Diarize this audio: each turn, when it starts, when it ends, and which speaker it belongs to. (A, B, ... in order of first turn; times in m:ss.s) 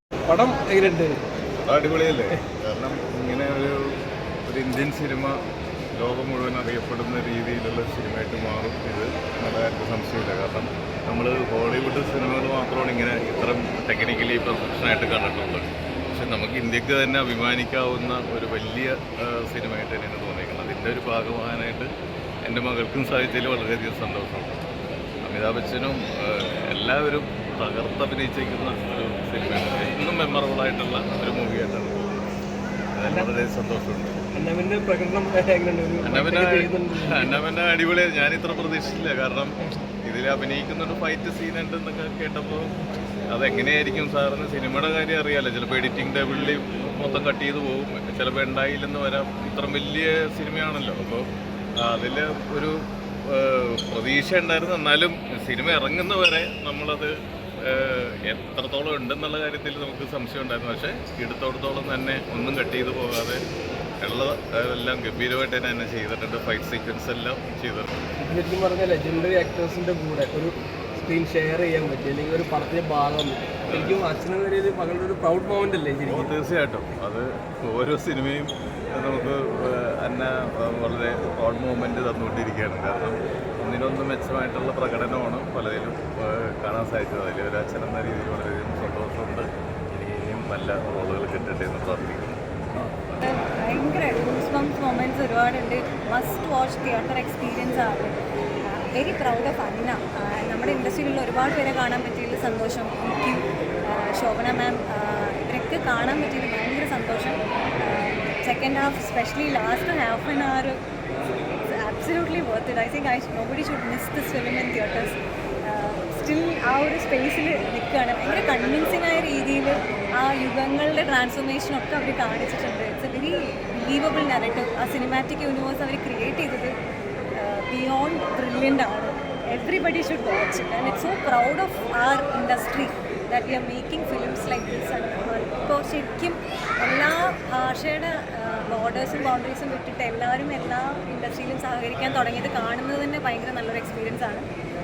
0:00.3-0:01.2 A
0:01.6-0:03.8 B
0:04.5-0:05.4 B
0:06.0-0:21.9 B
0:22.4-0:24.6 B
0:25.2-0:32.2 B
0:32.9-0:34.2 B
0:34.3-0:37.4 A
0:36.0-0:42.7 B
0:43.3-1:03.4 B
1:04.0-1:07.9 B
1:08.2-1:16.3 A
1:13.7-1:14.0 B
1:16.0-1:32.4 B
1:33.2-1:50.8 C
1:51.6-2:06.8 C
2:07.4-2:24.4 C